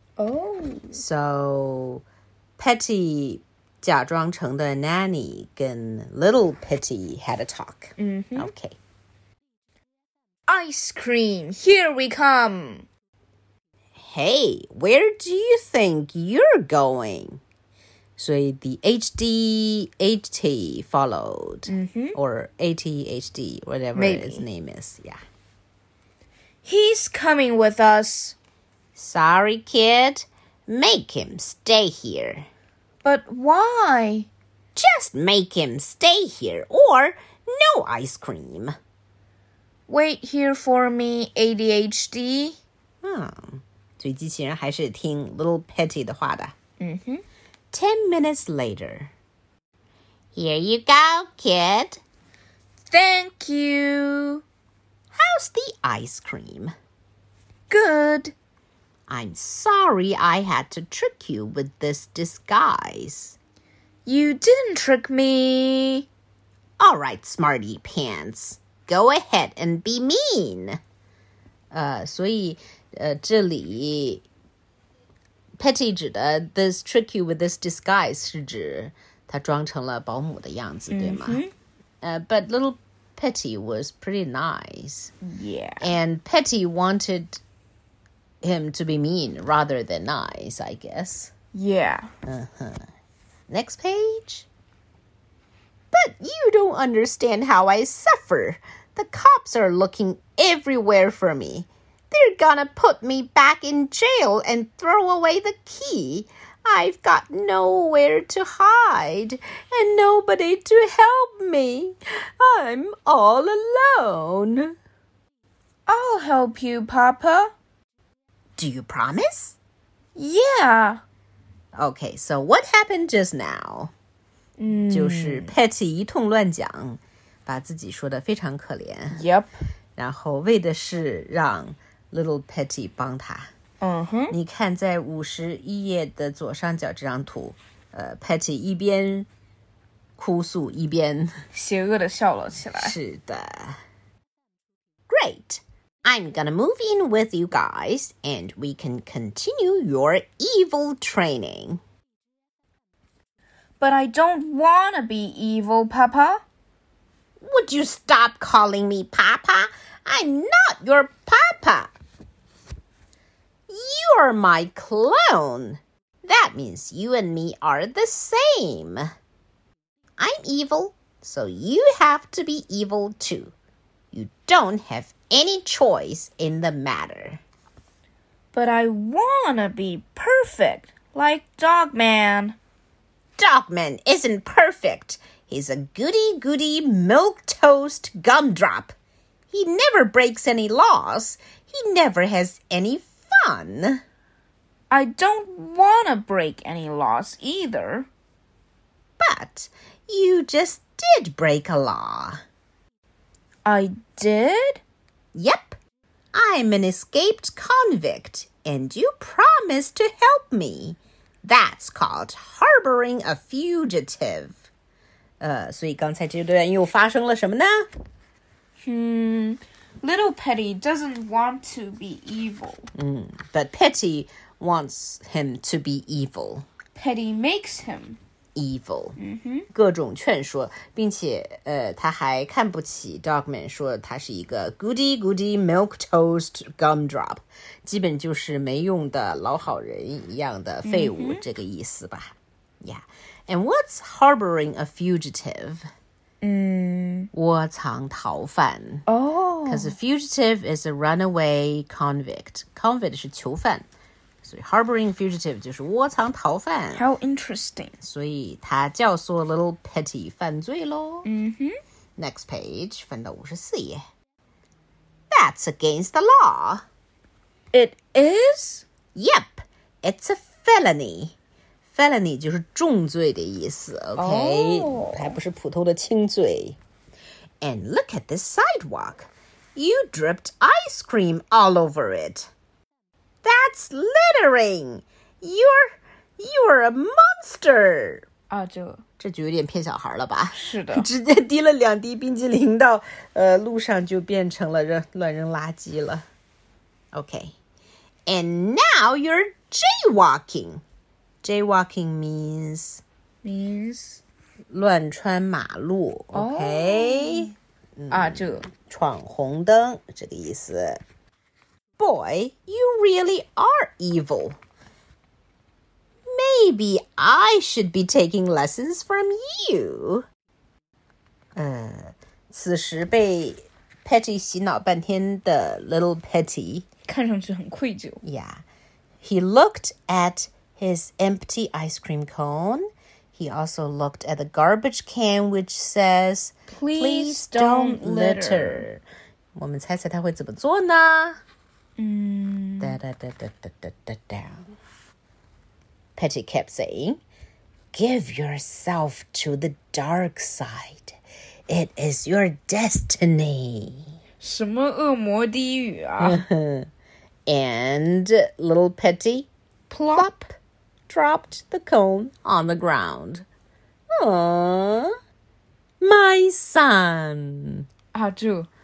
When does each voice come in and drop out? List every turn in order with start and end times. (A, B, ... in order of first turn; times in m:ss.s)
0:00.2-0:01.0 A
0:00.9-0:02.0 B
0:02.6-0:08.8 B
0:08.0-0:08.5 A
0:10.5-0:12.9 A
0:14.0-0:17.4 B
0:18.2-0:25.2 B
0:21.7-0:22.2 A
0:23.9-0:24.4 A
0:26.6-0:28.4 A
0:29.0-0:32.4 B
0:33.0-0:34.3 A
0:34.8-0:38.7 B
0:39.9-0:42.6 A
0:43.0-0:46.5 B
0:46.8-0:47.2 A
0:47.7-0:49.1 B
0:50.3-0:52.0 B
0:52.9-0:54.4 A
0:55.1-0:56.7 B
0:57.7-0:58.3 A
0:59.1-1:03.4 B
1:04.0-1:06.1 A
1:06.8-1:10.8 B
1:11.7-1:14.2 B
1:15.6-1:21.4 B
1:20.9-1:21.5 A
1:22.0-1:25.1 B
1:25.2-1:25.9 A
1:25.8-1:27.4 B
1:28.4-1:31.3 B
1:31.5-1:32.1 A
1:32.2-1:32.8 B
1:33.5-1:34.5 B
1:35.9-1:54.7 B
1:55.9-1:57.5 A
1:58.6-1:59.6 B
2:00.1-2:01.0 A
2:01.8-2:03.9 B
2:04.6-2:05.5 A
2:04.9-2:09.2 B
2:09.1-2:09.6 A
2:10.0-2:13.5 B
2:13.8-2:14.4 A
2:14.3-2:19.3 B
2:20.2-2:21.3 B
2:21.5-2:22.9 A
2:22.8-2:23.8 B
2:25.1-2:31.8 B
2:33.8-2:36.4 A
2:37.4-2:41.9 B
2:43.7-2:49.0 B
2:50.2-2:53.5 B
2:54.1-2:57.4 B
2:58.5-3:02.6 A
3:03.4-3:08.9 B
3:09.5-3:14.0 B
3:14.9-3:18.1 A
3:19.2-3:22.4 B
3:23.6-3:24.8 A
3:25.3-3:25.8 B
3:26.3-3:34.6 B
3:35.4-3:37.8 B
3:38.8-3:42.9 A
3:42.9-3:46.6 B
3:46.9-3:48.2 A
3:48.6-3:49.2 B
3:49.2-3:49.7 A
3:49.7-4:05.8 B
4:00.8-4:01.4 A
4:06.4-4:07.3 A
4:07.3-4:09.0 B
4:09.1-4:09.9 A
4:09.6-4:13.8 B
4:14.4-4:17.0 B
4:16.9-4:17.9 A
4:18.0-4:21.3 B
4:21.2-4:21.8 A
4:22.2-4:24.0 B
4:25.3-4:26.8 B
4:27.7-4:28.8 A
4:29.1-4:31.3 B
4:31.9-4:36.8 B
4:34.2-4:35.3 A
4:37.6-4:42.5 B
4:43.4-4:48.2 B
4:48.5-4:49.0 A
4:49.2-4:56.2 B
4:50.5-4:51.0 A
4:57.1-4:57.5 B
4:58.3-5:00.8 B
5:01.4-5:03.0 B
5:03.4-5:04.2 A
5:04.7-5:11.0 B
5:06.3-5:07.5 A
5:08.1-5:08.7 A
5:12.0-5:14.6 B
5:16.2-5:20.2 B
5:21.6-5:26.9 B
5:27.0-5:28.2 A
5:28.2-5:28.6 B
5:29.2-5:39.0 B
5:36.7-5:38.9 A
5:39.6-5:41.4 B
5:42.0-5:43.0 A
5:42.8-5:44.7 B
5:46.2-5:47.2 B
5:47.9-5:51.2 B
5:51.7-5:54.1 B
5:54.4-5:56.4 A
5:56.2-5:56.8 B
5:57.5-5:59.5 B
5:59.9-6:00.3 A
6:00.1-6:00.6 B
6:01.1-6:03.4 B
6:04.2-6:05.1 B
6:06.0-6:07.8 B
6:08.1-6:08.7 A